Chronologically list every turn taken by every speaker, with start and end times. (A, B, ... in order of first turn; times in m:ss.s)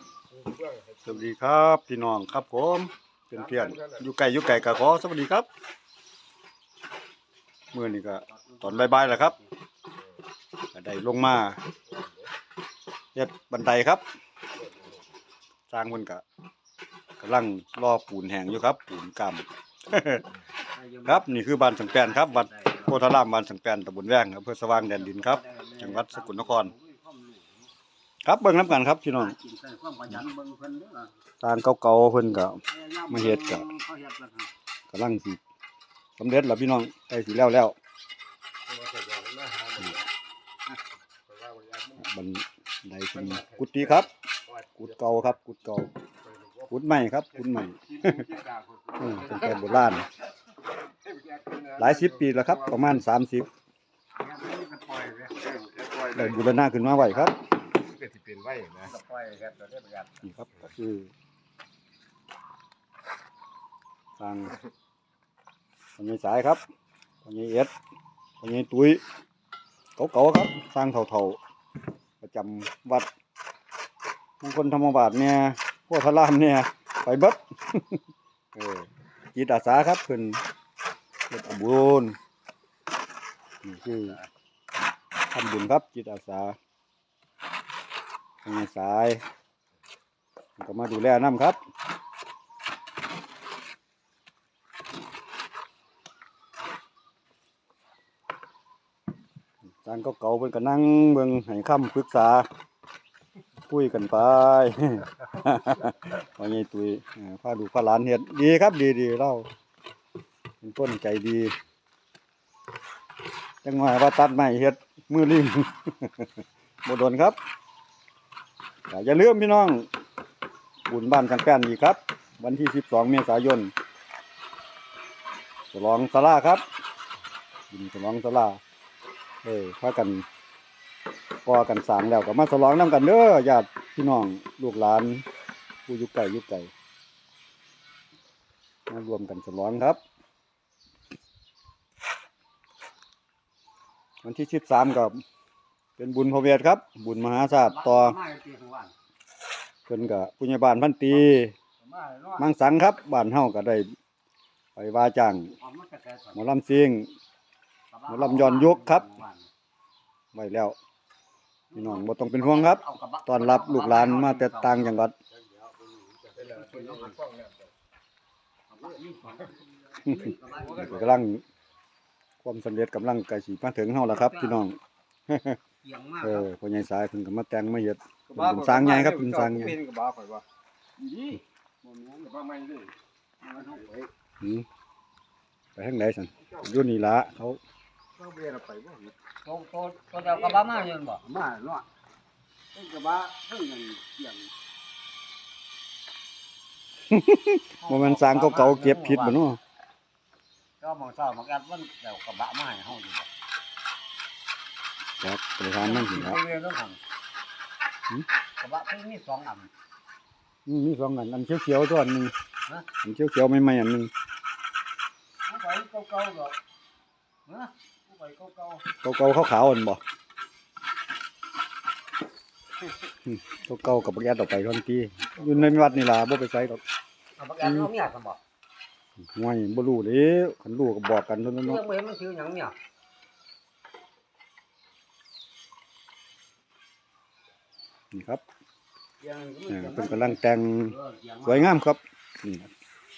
0:00.3-0:01.1 A
0:01.0-0:05.5 B
0:03.4-0:04.0 A
0:07.7-0:09.4 B
0:08.3-0:09.5 C
0:10.7-0:11.6 B
0:13.1-0:14.0 B
0:15.7-0:16.2 B
0:17.2-0:20.3 B
0:20.7-0:23.1 C
0:21.0-0:26.7 B
0:24.9-0:27.7 C
0:28.2-0:29.3 B
0:29.1-0:31.1 C
0:31.4-0:33.6 B
0:32.7-0:34.5 C
0:34.9-0:35.4 B
0:36.2-0:37.8 B
0:38.7-0:40.0 C
0:41.3-0:42.0 A
0:42.0-0:44.1 B
0:43.2-0:44.8 A
0:44.8-0:45.9 B
0:46.3-0:46.7 A
0:46.7-0:48.2 B
0:47.6-0:50.0 A
0:49.0-0:50.1 B
0:51.0-0:52.8 A
0:51.8-0:53.5 B
0:54.2-0:55.5 C
0:55.5-0:56.5 A
0:56.1-0:57.4 B
0:56.9-0:57.3 C
0:57.8-0:58.9 A
0:58.8-1:00.2 C
1:00.2-1:01.1 B
1:04.2-1:04.6 B
1:06.0-1:06.6 B
1:07.2-1:07.7 B
1:08.4-1:09.0 B
1:10.0-1:11.4 B
1:12.2-1:13.1 B
1:14.4-1:18.0 B
1:18.5-1:20.4 B
1:21.3-1:22.2 B
1:23.6-1:24.2 B
1:25.3-1:26.6 B
1:28.4-1:29.2 B
1:30.6-1:31.6 B
1:39.8-1:42.5 B
1:43.7-1:49.5 B
1:50.6-1:51.5 B
1:53.6-1:56.3 B
1:56.8-1:57.4 B
1:58.9-1:59.9 B
2:00.9-2:03.7 B
2:05.7-2:06.6 B
2:07.7-2:08.6 B
2:09.4-2:10.2 B
2:11.4-2:15.2 B
2:15.9-2:16.7 B
2:18.9-2:20.0 B
2:24.2-2:25.2 B
2:26.0-2:28.2 B
2:27.5-2:28.9 C
2:29.9-2:31.5 B
2:31.8-2:32.5 C
2:32.4-2:33.9 B
2:34.8-2:35.5 B
2:35.6-2:36.5 C
2:36.3-2:37.1 B
2:37.9-2:39.5 C
2:38.1-2:39.1 B
2:40.3-2:40.8 B
2:41.7-2:45.0 C
2:41.7-2:45.1 B
2:45.6-2:47.7 A
2:46.3-2:47.2 C
2:48.7-2:51.0 C
2:50.0-2:51.4 B
2:50.4-2:51.1 A
2:52.4-2:54.8 B
2:54.0-2:54.6 C
2:55.3-2:55.6 B
2:55.8-2:56.5 C
2:56.2-2:59.8 B
2:58.3-3:00.4 A
3:01.0-3:02.9 A
3:03.4-3:04.1 C
3:03.5-3:03.9 A
3:04.4-3:04.6 B
3:05.8-3:07.6 B
3:08.2-3:09.1 A
3:09.4-3:11.8 C
3:10.2-3:10.7 A
3:17.1-3:19.6 B
3:17.8-3:19.4 C
3:20.8-3:23.3 C
3:25.2-3:26.4 B
3:25.7-3:27.0 C
3:28.6-3:29.7 C
3:30.6-3:32.3 B
3:33.0-3:34.1 B
3:35.5-3:35.9 C
3:37.4-3:37.7 C
3:39.0-3:40.0 B
3:43.2-3:46.8 B
3:47.4-3:48.4 C
3:47.6-3:47.9 B
3:49.2-3:51.8 B
3:51.6-3:52.8 C
3:58.1-3:58.4 B
3:59.2-4:01.8 C
3:59.7-4:02.7 B